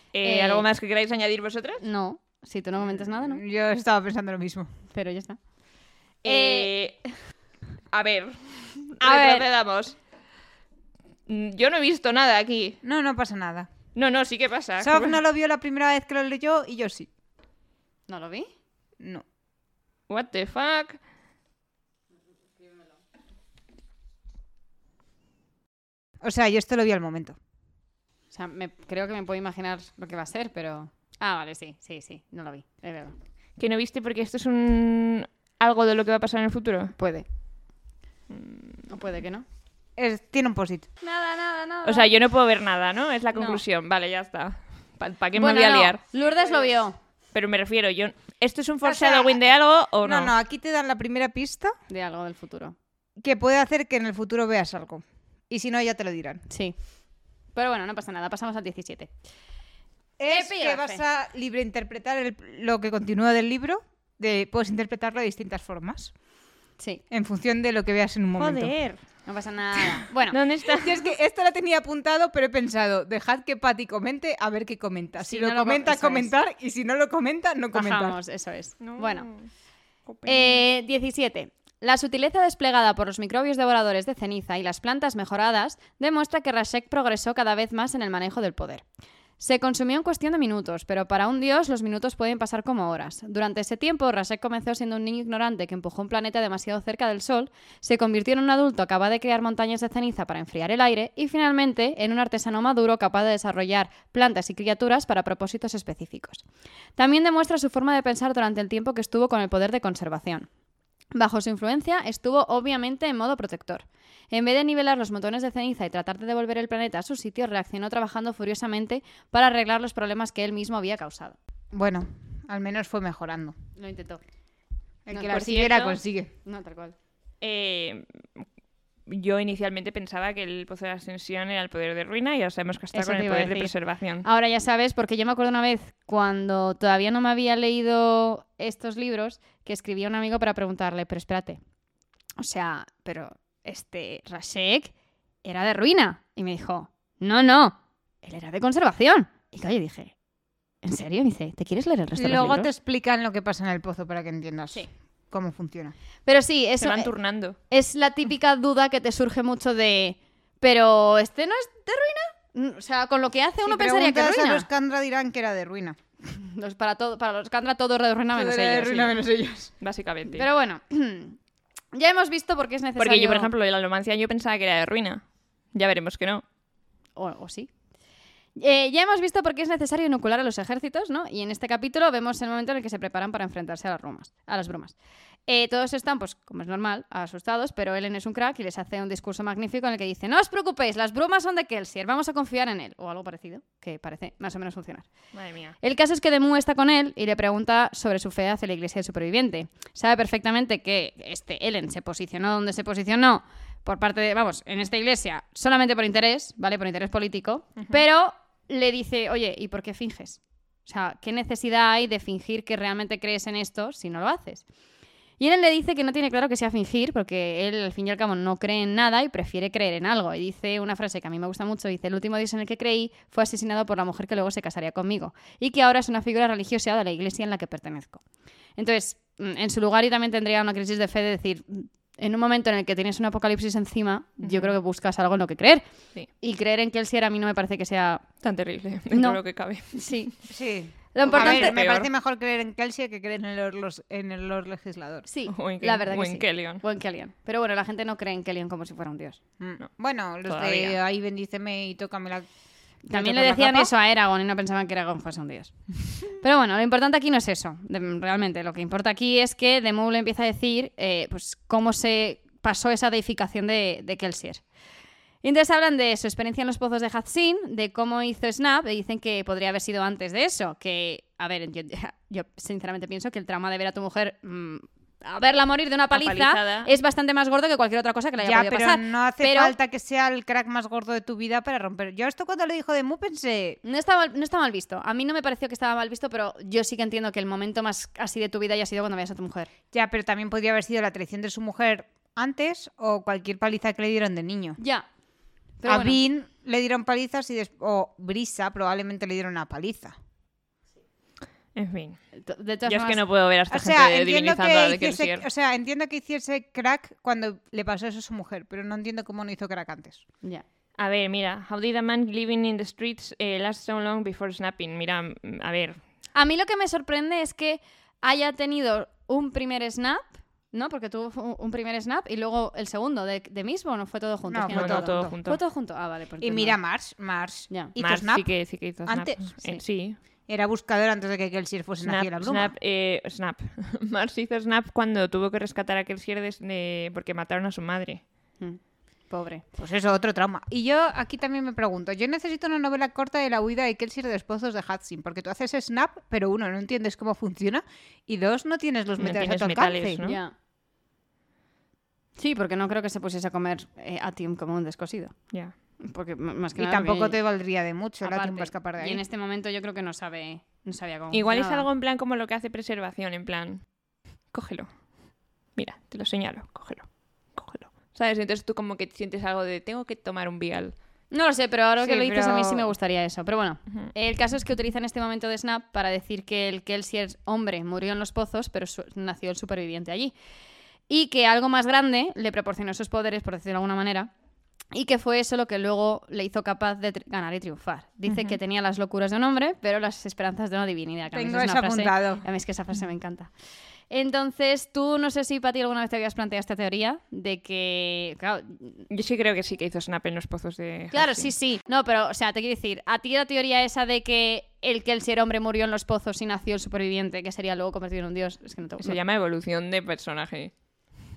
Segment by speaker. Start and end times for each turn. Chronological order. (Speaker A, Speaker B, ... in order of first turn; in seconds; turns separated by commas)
Speaker A: 0.1-1.8, Speaker B: 0.2-0.7, Speaker B: 1.8-3.4, Speaker C: 2.9-4.7, Speaker B: 4.9-5.4, Speaker A: 6.2-7.0, Speaker B: 6.2-6.7, Speaker A: 7.9-10.0, Speaker B: 9.0-9.5, Speaker A: 11.3-12.8, Speaker C: 12.8-13.7, Speaker A: 13.9-15.2, Speaker C: 14.8-17.1, Speaker B: 18.1-18.5, Speaker A: 20.1-21.0, Speaker C: 26.2-27.4, Speaker B: 28.3-33.2, Speaker A: 33.6-36.9, Speaker B: 37.0-37.3, Speaker A: 38.3-38.8, Speaker B: 38.9-39.5, Speaker C: 40.0-40.9, Speaker B: 41.0-42.1, Speaker A: 41.8-46.0, Speaker B: 43.3-43.6, Speaker B: 45.4-47.0, Speaker A: 47.3-50.3, Speaker C: 48.8-49.4, Speaker C: 50.0-51.8, Speaker B: 51.9-52.8, Speaker C: 53.2-56.4, Speaker B: 56.5-56.8, Speaker B: 57.5-59.1, Speaker C: 60.2-66.1, Speaker B: 60.3-61.0, Speaker C: 67.1-68.8, Speaker A: 68.4-69.0, Speaker B: 69.2-70.4, Speaker A: 70.3-71.0, Speaker C: 70.8-78.2, Speaker B: 75.2-76.3, Speaker B: 77.7-79.3, Speaker A: 78.8-79.5, Speaker A: 80.1-80.6, Speaker B: 80.3-88.8, Speaker B: 89.4-106.4, Speaker B: 107.0-110.5, Speaker B: 111.1-121.4, Speaker C: 121.7-123.6, Speaker B: 123.8-124.2, Speaker C: 125.1-126.3, Speaker A: 125.1-126.0, Speaker B: 126.5-127.0, Speaker A: 127.4-128.4, Speaker A: 129.1-134.3, Speaker B: 132.9-141.6, Speaker B: 142.4-144.9, Speaker B: 145.4-150.1, Speaker B: 150.8-152.7, Speaker C: 152.2-155.9, Speaker B: 156.3-157.1, Speaker A: 156.8-157.6, Speaker B: 157.7-164.7, Speaker C: 163.6-166.0, Speaker B: 166.3-169.2, Speaker C: 168.3-169.7, Speaker A: 169.8-170.5, Speaker B: 170.4-171.4, Speaker B: 171.9-173.5, Speaker A: 173.0-176.4, Speaker B: 177.2-177.7, Speaker B: 178.6-184.9, Speaker B: 185.5-195.1, Speaker A: 195.3-195.8, Speaker B: 195.8-214.6, Speaker B: 215.4-228.2, Speaker B: 228.8-235.8, Speaker A: 234.4-234.7, Speaker B: 236.4-238.2, Speaker A: 238.4-240.0, Speaker B: 239.1-239.4, Speaker B: 239.9-240.3, Speaker C: 240.5-245.3, Speaker B: 241.1-241.8, Speaker A: 241.2-242.1, Speaker B: 245.3-249.4, Speaker A: 245.5-246.8, Speaker C: 249.6-252.5, Speaker A: 250.4-251.0, Speaker B: 253.1-264.6, Speaker C: 253.1-253.9, Speaker B: 265.4-279.8, Speaker A: 276.1-276.9, Speaker C: 278.4-283.8, Speaker B: 283.8-289.7, Speaker C: 289.9-294.8, Speaker B: 294.8-295.1, Speaker B: 295.8-296.2, Speaker C: 295.9-300.1, Speaker A: 301.8-302.2, Speaker B: 302.4-303.2, Speaker A: 302.9-305.5, Speaker C: 303.7-310.2, Speaker A: 311.0-316.0, Speaker B: 316.4-326.8, Speaker C: 324.5-325.3, Speaker A: 324.7-325.6, Speaker C: 326.4-328.5, Speaker A: 328.0-330.2, Speaker C: 329.1-329.5, Speaker C: 330.5-332.7, Speaker A: 332.0-338.2, Speaker B: 339.3-339.7, Speaker C: 339.8-350.2, Speaker A: 349.2-350.4, Speaker B: 350.2-350.5, Speaker B: 352.4-355.3, Speaker B: 356.0-357.4, Speaker C: 356.8-359.2, Speaker B: 358.2-361.9, Speaker A: 361.3-363.9, Speaker A: 364.5-364.9, Speaker A: 365.8-370.9, Speaker B: 371.3-380.3, Speaker C: 372.0-372.9, Speaker B: 381.1-384.3, Speaker B: 384.9-393.5, Speaker C: 388.3-388.6, Speaker C: 391.3-392.4, Speaker B: 394.1-399.1, Speaker A: 399.1-401.5, Speaker B: 401.1-409.2, Speaker A: 409.0-410.7